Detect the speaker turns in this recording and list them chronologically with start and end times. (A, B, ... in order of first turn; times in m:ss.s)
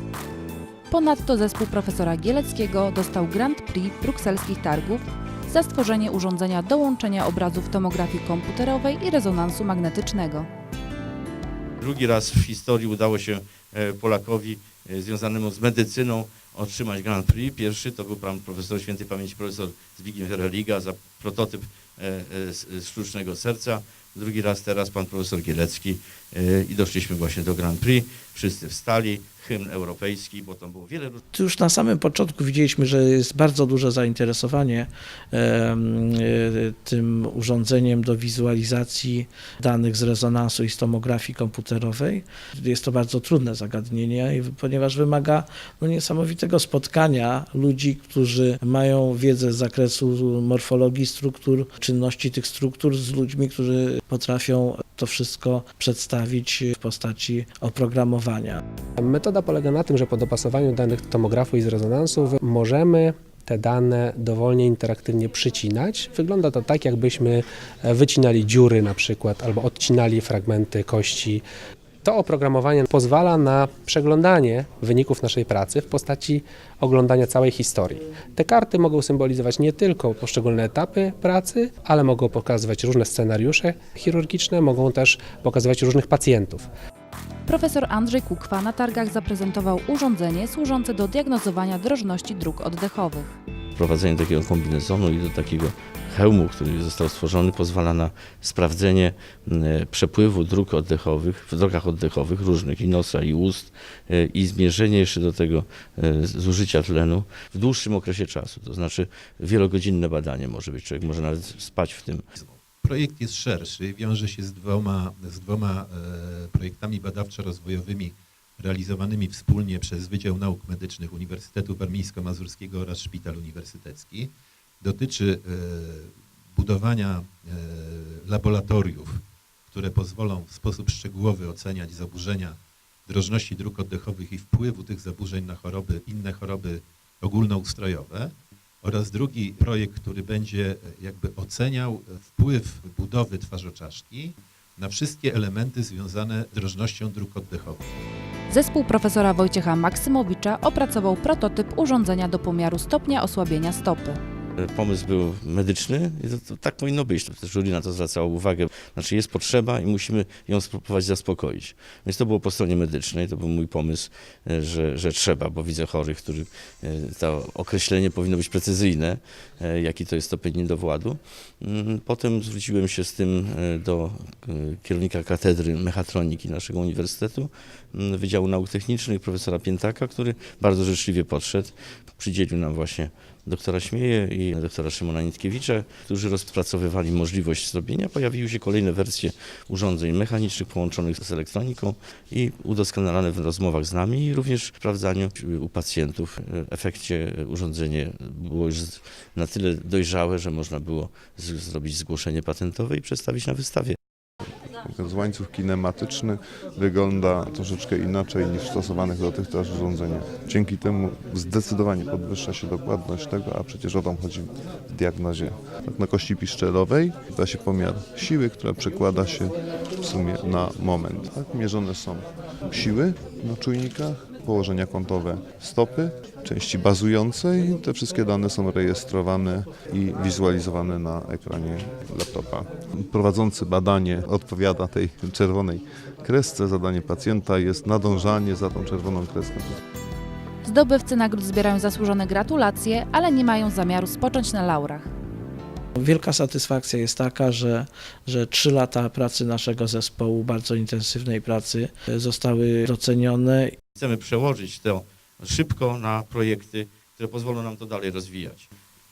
0:00.9-0:10.5 A
0:11.8-0:31.2 B
0:31.3-0:58.6 C
0:59.0-1:11.4 D
1:12.0-1:26.7 D
1:27.4-1:33.4 A
1:33.8-1:52.2 B
1:52.3-2:27.9 E
2:28.5-2:34.2 A
2:34.6-3:24.0 B
3:24.8-3:59.8 F
4:00.6-4:05.1 A
4:06.0-4:13.8 C
4:13.9-4:18.7 B